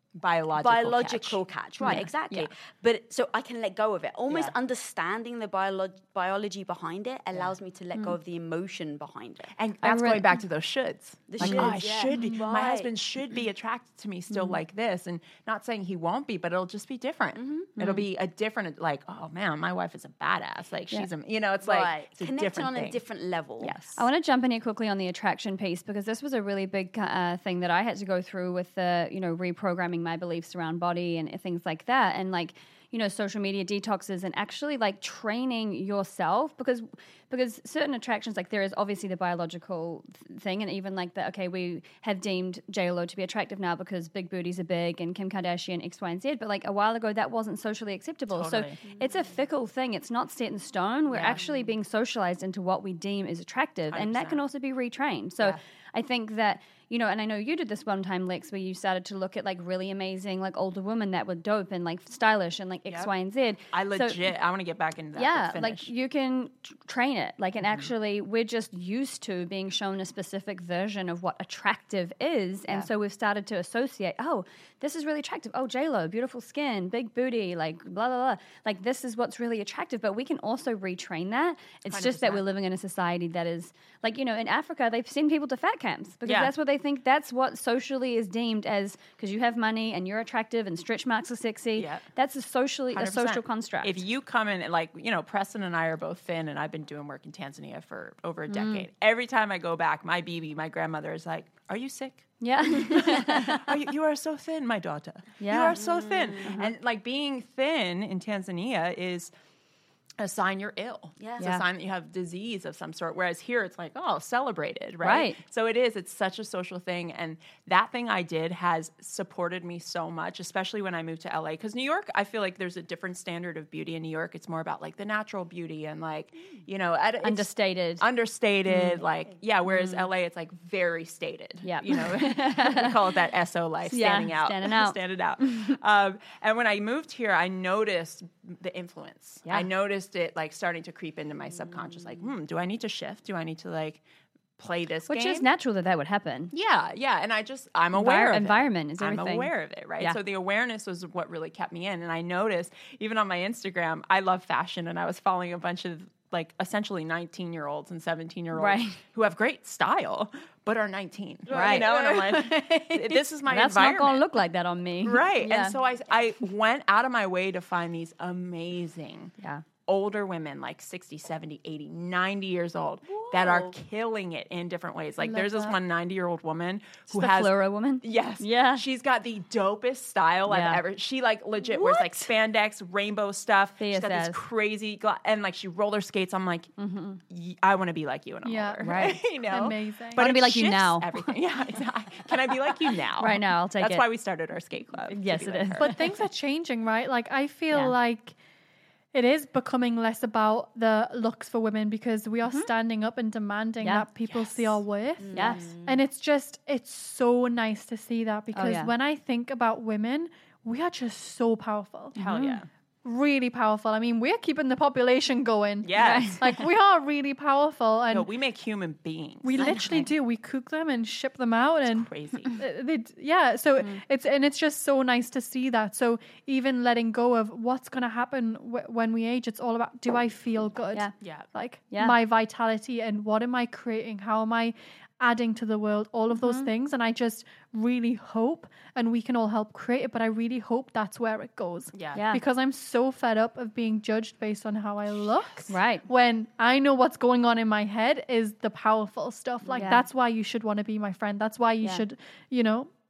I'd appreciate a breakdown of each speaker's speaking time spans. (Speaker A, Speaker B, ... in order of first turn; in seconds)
Speaker A: 0.1-2.1, 9.5-23.0, 23.6-24.0, 48.3-48.8, 51.1-51.4, 53.9-54.4, 63.7-65.9, 67.6-67.9, 81.9-82.4, 86.2-86.5, 91.8-92.0, 92.9-109.3, 110.2-144.0, 144.6-145.5, 146.5-164.2, 165.0-169.3, 169.9-186.7, 187.3-195.9, 204.3-204.6, 212.2-212.7, 215.8-216.4, 218.1-220.1, 221.9-222.6, 231.2-231.4, 241.9-242.2
Speaker B: 0.6-9.5, 11.3-12.9, 17.3-17.7, 21.6-23.7, 48.8-49.3, 102.9-103.5, 105.7-106.7, 111.2-111.4, 161.5-162.6, 173.1-173.8, 181.6-182.3, 205.2-206.0
Speaker C: 1.8-2.5, 9.8-10.4, 11.4-11.8, 14.3-14.6, 17.8-18.0, 23.7-64.2, 65.2-94.0, 98.5-98.8, 102.4-103.6, 105.4-105.8, 106.4-106.7, 111.4-111.6, 115.0-115.4, 127.2-128.0, 128.7-129.0, 129.7-130.1, 131.6-132.9, 133.8-135.8, 145.1-146.5, 147.9-150.2, 158.5-159.0, 161.5-161.9, 162.5-165.8, 169.4-169.6, 177.1-178.8, 180.5-180.8, 183.8-184.4, 186.8-187.2, 188.8-189.2, 190.1-191.3, 193.2-194.0, 195.1-196.1, 197.7-197.9, 203.8-204.1, 205.3-205.7, 208.5-208.9, 212.2-212.6, 215.9-216.6, 219.6-219.9, 236.3-236.7, 242.1-242.4, 245.7-246.0, 249.7-250.0
Speaker D: 175.2-175.8, 188.4-190.2, 195.8-198.3, 199.1-212.2, 213.0-218.3, 219.4-252.9